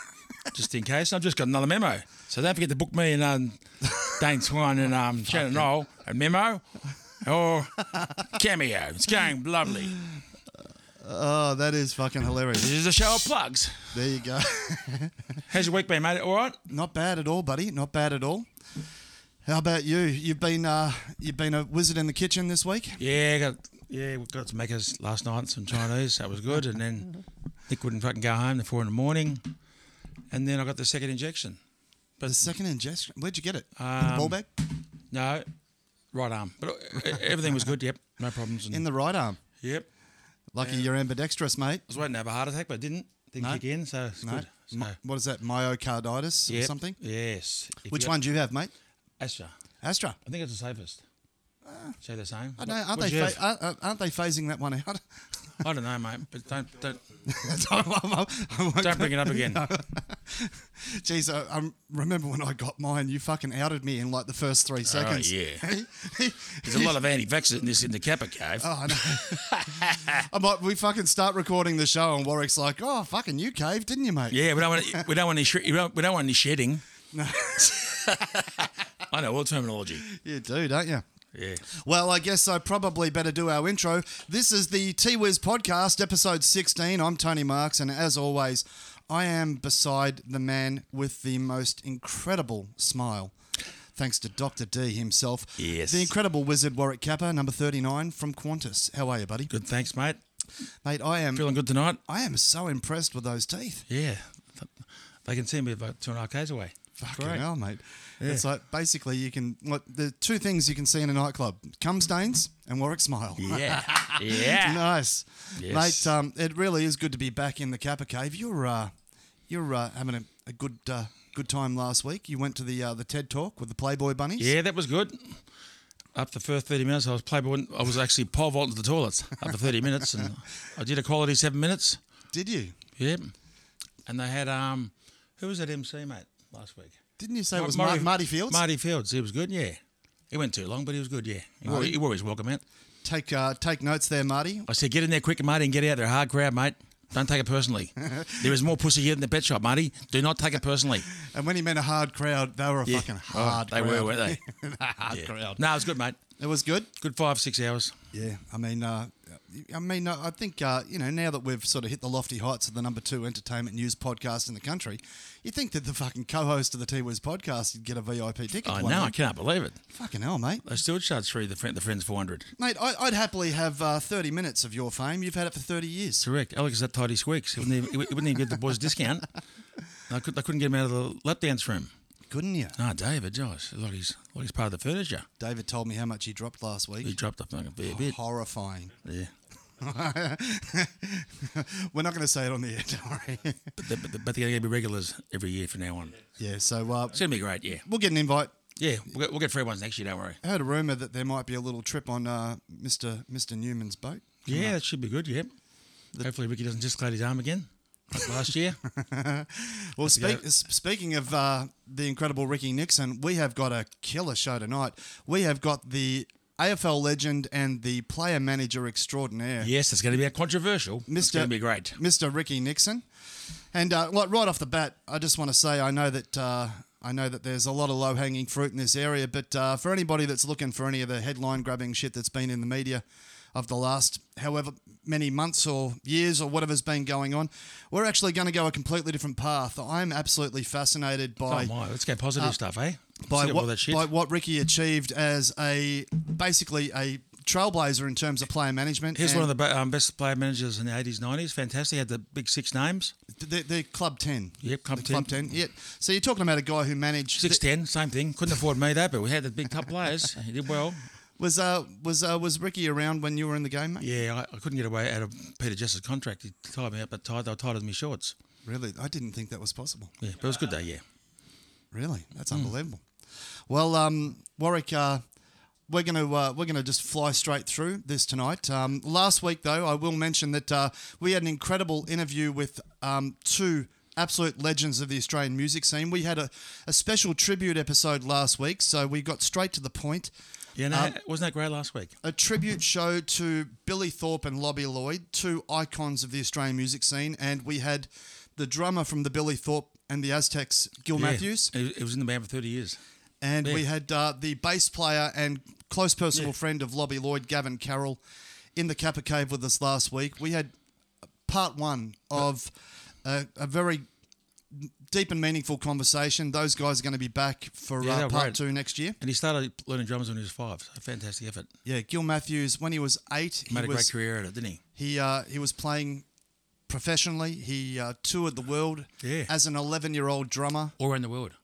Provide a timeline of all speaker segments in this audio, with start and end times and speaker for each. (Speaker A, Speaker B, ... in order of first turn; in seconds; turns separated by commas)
Speaker A: 0.5-6.7, Speaker A: 7.2-10.0, Speaker B: 11.0-12.7, Speaker A: 12.5-14.0, Speaker B: 13.9-15.1, Speaker A: 15.5-16.6, Speaker B: 16.7-18.5, Speaker B: 19.4-23.0, Speaker A: 23.0-27.1, Speaker A: 27.7-29.5, Speaker A: 30.3-31.6, Speaker B: 32.2-34.5, Speaker A: 33.8-34.4, Speaker A: 35.1-35.5, Speaker A: 36.1-38.8, Speaker B: 38.7-39.4, Speaker A: 39.6-39.9, Speaker B: 40.5-41.8, Speaker A: 40.6-40.8, Speaker A: 41.9-45.0, Speaker B: 44.2-47.0, Speaker A: 46.5-48.1, Speaker B: 47.9-48.7, Speaker A: 49.2-49.5, Speaker B: 49.8-50.2, Speaker A: 50.2-51.0, Speaker B: 51.6-52.0, Speaker A: 52.0-53.4, Speaker B: 52.6-55.0, Speaker A: 55.6-57.0, Speaker B: 57.3-66.9, Speaker A: 58.8-59.6, Speaker A: 64.8-65.7, Speaker A: 66.6-70.2, Speaker B: 68.6-69.5, Speaker B: 70.2-75.0, Speaker A: 74.3-76.8, Speaker B: 77.1-78.2, Speaker A: 78.1-80.1, Speaker B: 80.1-81.0, Speaker A: 81.3-81.6, Speaker B: 81.7-93.3, Speaker B: 94.0-99.5, Speaker A: 95.6-96.1, Speaker A: 99.5-100.2, Speaker B: 100.8-101.5, Speaker A: 101.3-102.0, Speaker B: 102.1-103.8, Speaker A: 103.9-107.4, Speaker B: 107.0-118.9, Speaker A: 113.4-114.9, Speaker A: 115.5-116.1, Speaker B: 119.5-124.5, Speaker A: 124.4-125.4, Speaker A: 126.1-132.0, Speaker B: 132.3-132.7, Speaker A: 133.0-133.3, Speaker A: 134.1-137.0, Speaker B: 137.2-138.6, Speaker A: 137.5-139.8, Speaker A: 140.3-142.6, Speaker B: 141.6-141.9, Speaker B: 143.0-144.7, Speaker A: 144.7-151.1, Speaker B: 148.0-148.3, Speaker B: 151.2-155.6, Speaker A: 152.9-154.4, Speaker A: 155.1-156.2, Speaker B: 156.4-156.9, Speaker A: 157.0-157.9, Speaker B: 158.1-169.1, Speaker A: 168.6-169.8, Speaker B: 169.9-170.6, Speaker A: 170.6-172.5, Speaker B: 172.6-176.2, Speaker A: 176.2-179.3, Speaker A: 180.1-181.9, Speaker B: 182.3-182.8, Speaker A: 182.8-185.2, Speaker B: 185.4-187.1, Speaker A: 187.0-188.2, Speaker B: 187.8-188.9, Speaker A: 189.0-189.3, Speaker B: 189.8-193.7, Speaker A: 193.8-196.2, Speaker B: 196.4-197.2, Speaker A: 197.1-197.8, Speaker B: 197.8-198.5, Speaker A: 198.8-200.4, Speaker B: 200.4-204.7, Speaker A: 204.4-205.5, Speaker A: 206.2-208.8, Speaker B: 208.9-219.7, Speaker A: 210.0-210.4, Speaker A: 219.6-221.9, Speaker B: 221.1-223.0, Speaker B: 223.7-241.7, Speaker A: 241.5-244.1, Speaker B: 243.3-249.5, Speaker A: 249.2-253.1, Speaker B: 253.4-257.6, Speaker A: 254.6-255.3, Speaker A: 257.4-261.0, Speaker B: 261.4-264.1, Speaker A: 264.0-268.3, Speaker B: 268.6-270.1, Speaker A: 270.2-271.0, Speaker B: 271.9-273.0, Speaker B: 273.7-275.2, Speaker B: 275.9-290.3, Speaker A: 290.8-292.1, Speaker B: 290.9-291.1, Speaker B: 292.2-301.7, Speaker A: 301.1-303.0, Speaker B: 303.4-308.2, Speaker B: 308.8-310.7, Speaker B: 311.5-312.7, Speaker B: 313.2-314.0, Speaker B: 314.7-319.2, Speaker A: 318.0-318.6, Speaker A: 319.2-321.7, Speaker B: 321.8-324.1, Speaker A: 323.7-324.8, Speaker B: 325.0-326.2, Speaker B: 326.9-330.9, Speaker A: 329.2-329.5, Speaker A: 331.0-331.6